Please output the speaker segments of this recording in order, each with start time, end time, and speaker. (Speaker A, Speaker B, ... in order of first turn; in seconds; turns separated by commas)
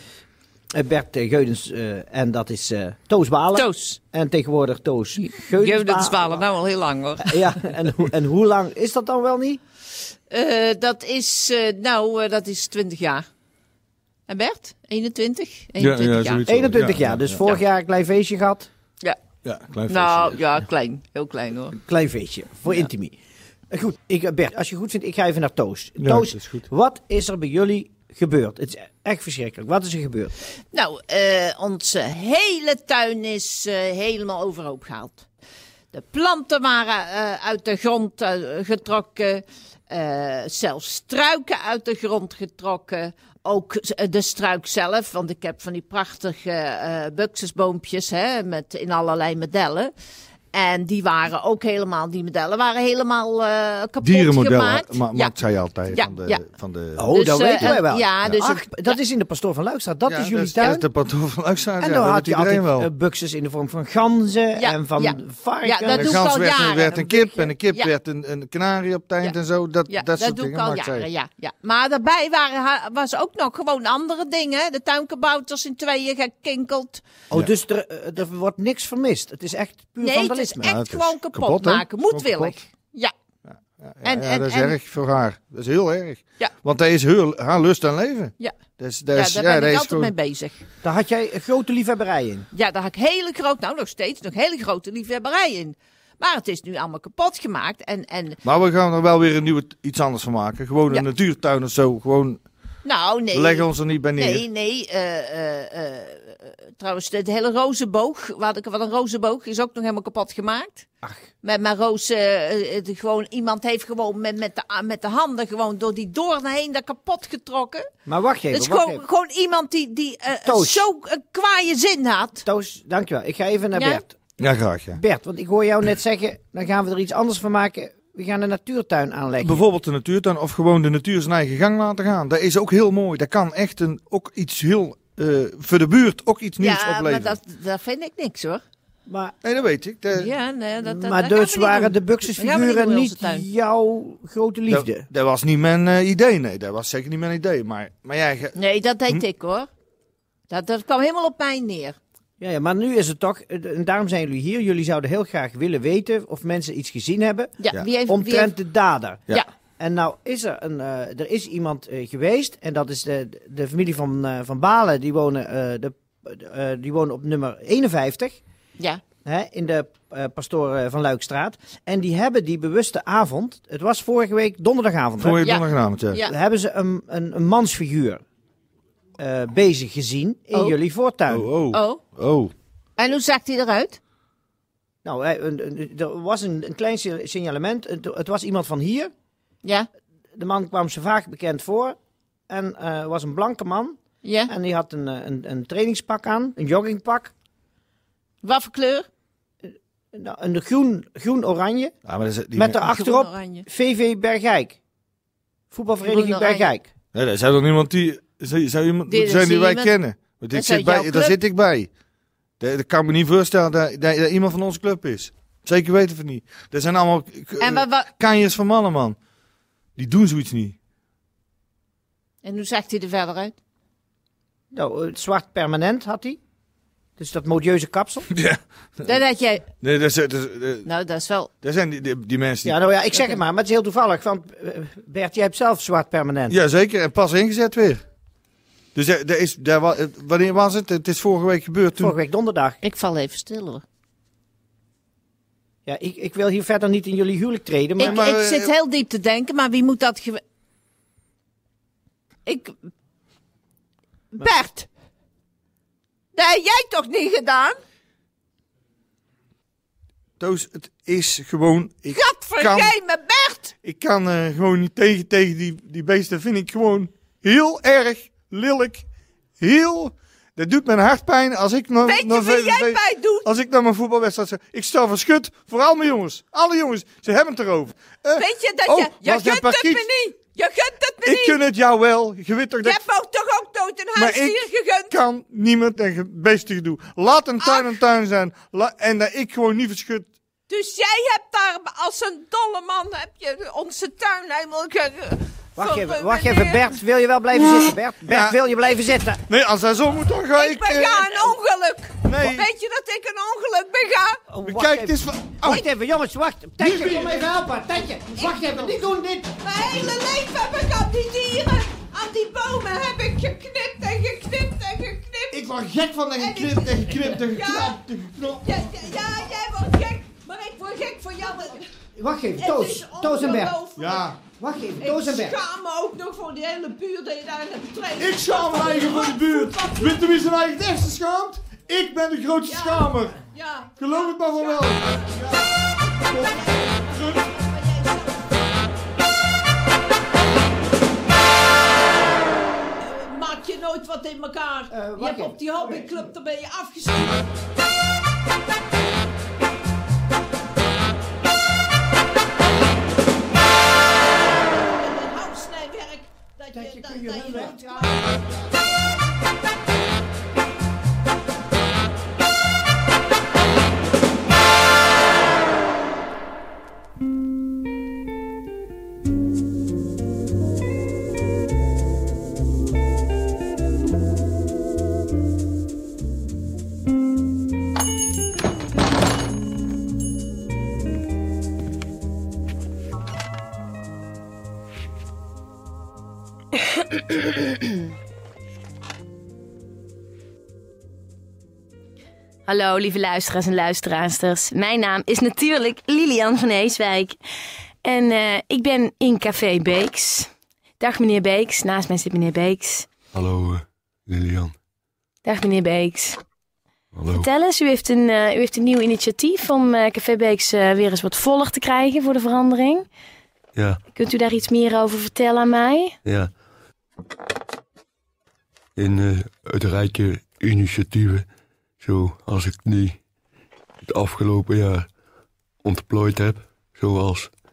Speaker A: 0.8-6.5, Speaker B: 3.5-4.0, Speaker B: 5.2-7.4, Speaker A: 7.2-9.6, Speaker B: 10.3-13.2, Speaker B: 14.3-16.5, Speaker C: 15.8-17.4, Speaker A: 16.5-18.7, Speaker C: 19.4-20.4, Speaker B: 19.8-21.8, Speaker A: 21.8-23.2, Speaker A: 23.7-30.3, Speaker C: 26.0-26.6, Speaker B: 30.7-35.3, Speaker B: 35.9-49.9, Speaker B: 50.5-55.4, Speaker C: 54.0-58.6, Speaker B: 55.9-56.5, Speaker A: 57.0-60.9, Speaker B: 57.1-59.0, Speaker C: 60.1-62.9, Speaker A: 61.8-66.2, Speaker B: 64.6-67.9, Speaker C: 65.9-71.1, Speaker B: 69.2-77.0, Speaker A: 77.3-80.9, Speaker B: 80.0-83.1, Speaker C: 80.6-82.6, Speaker C: 83.5-90.1, Speaker B: 84.0-84.8, Speaker B: 88.3-90.7, Speaker A: 90.8-92.5, Speaker B: 92.5-98.4, Speaker C: 98.4-102.4, Speaker B: 102.8-110.9, Speaker C: 103.3-104.4, Speaker A: 111.0-111.3, Speaker B: 111.4-117.9, Speaker A: 118.1-119.0, Speaker B: 118.5-122.5, Speaker A: 120.5-120.9, Speaker A: 122.4-124.1, Speaker B: 123.8-124.0, Speaker C: 124.4-125.0, Speaker A: 124.9-129.6, Speaker C: 129.4-137.4, Speaker B: 136.6-138.6, Speaker A: 139.1-139.3, Speaker C: 139.4-140.3, Speaker B: 140.2-143.5, Speaker A: 140.8-145.1, Speaker C: 144.7-148.5, Speaker B: 148.5-149.7, Speaker B: 150.5-152.0, Speaker A: 152.4-168.4, Speaker B: 157.6-158.5, Speaker A: 169.2-175.5, Speaker C: 175.2-176.2, Speaker B: 175.4-176.3, Speaker A: 176.1-178.2, Speaker A: 179.2-181.5, Speaker C: 181.3-182.5, Speaker B: 181.7-182.1, Speaker B: 183.0-184.0, Speaker A: 185.0-189.1, Speaker B: 189.6-189.9, Speaker A: 190.3-192.0, Speaker A: 192.5-197.3, Speaker B: 194.2-194.5, Speaker B: 198.4-199.1, Speaker A: 200.1-201.9, Speaker C: 202.1-202.7, Speaker A: 202.5-204.8, Speaker B: 202.7-203.7, Speaker A: 205.7-206.9, Speaker B: 206.0-206.7, Speaker C: 207.2-211.9, Speaker B: 209.1-210.0, Speaker B: 210.5-211.4, Speaker C: 212.6-219.2, Speaker B: 217.6-218.2, Speaker C: 220.0-220.8, Speaker B: 222.4-223.6, Speaker A: 224.7-226.4, Speaker A: 227.2-228.3, Speaker C: 228.4-229.0, Speaker B: 229.0-229.7, Speaker C: 229.8-230.9, Speaker B: 230.8-231.5, Speaker C: 231.6-232.8, Speaker A: 232.6-236.6, Speaker B: 233.1-233.4, Speaker C: 236.5-238.0, Speaker C: 238.9-242.2, Speaker A: 242.0-242.8, Speaker B: 242.8-243.8, Speaker A: 245.8-248.3, Speaker B: 248.0-250.4, Speaker C: 248.0-248.7, Speaker B: 252.5-252.7, Speaker B: 254.3-254.9, Speaker B: 256.4-257.8, Speaker C: 260.4-262.9, Speaker B: 262.1-263.7, Speaker C: 263.8-269.1, Speaker C: 269.6-280.1, Speaker B: 272.0-273.5, Speaker B: 278.4-281.6, Speaker C: 281.2-283.0, Speaker B: 282.8-285.2, Speaker C: 284.1-290.3, Speaker B: 287.6-288.0, Speaker B: 290.7-296.9, Speaker A: 295.8-299.4, Speaker C: 298.2-298.6, Speaker C: 299.5-301.5, Speaker B: 300.5-304.5, Speaker C: 302.2-302.7, Speaker A: 304.5-309.5, Speaker C: 304.6-305.9, Speaker C: 306.8-307.5, Speaker C: 308.5-309.0, Speaker B: 309.6-315.7, Speaker C: 315.5-319.1, Speaker B: 316.3-321.9, Speaker A: 322.1-323.8, Speaker B: 322.6-324.3, Speaker C: 324.0-324.4, Speaker A: 324.6-325.6, Speaker B: 325.0-330.4, Speaker C: 328.2-333.4, Speaker B: 332.6-335.7, Speaker C: 334.0-335.7, Speaker B: 336.5-338.6, Speaker B: 343.0-347.4, Speaker A: 344.9-346.3, Speaker B: 354.5-359.2, Speaker A: 356.7-358.7, Speaker D: 392.6-397.4, Speaker D: 398.0-403.1, Speaker E: 403.3-404.7, Speaker D: 405.4-406.4, Speaker E: 407.1-407.5, Speaker D: 407.3-413.1, Speaker E: 413.8-414.0, Speaker D: 414.1-416.2, Speaker E: 416.2-416.5, Speaker E: 418.9-421.4, Speaker E: 422.0-423.2, Speaker E: 424.0-425.1, Speaker E: 425.8-427.5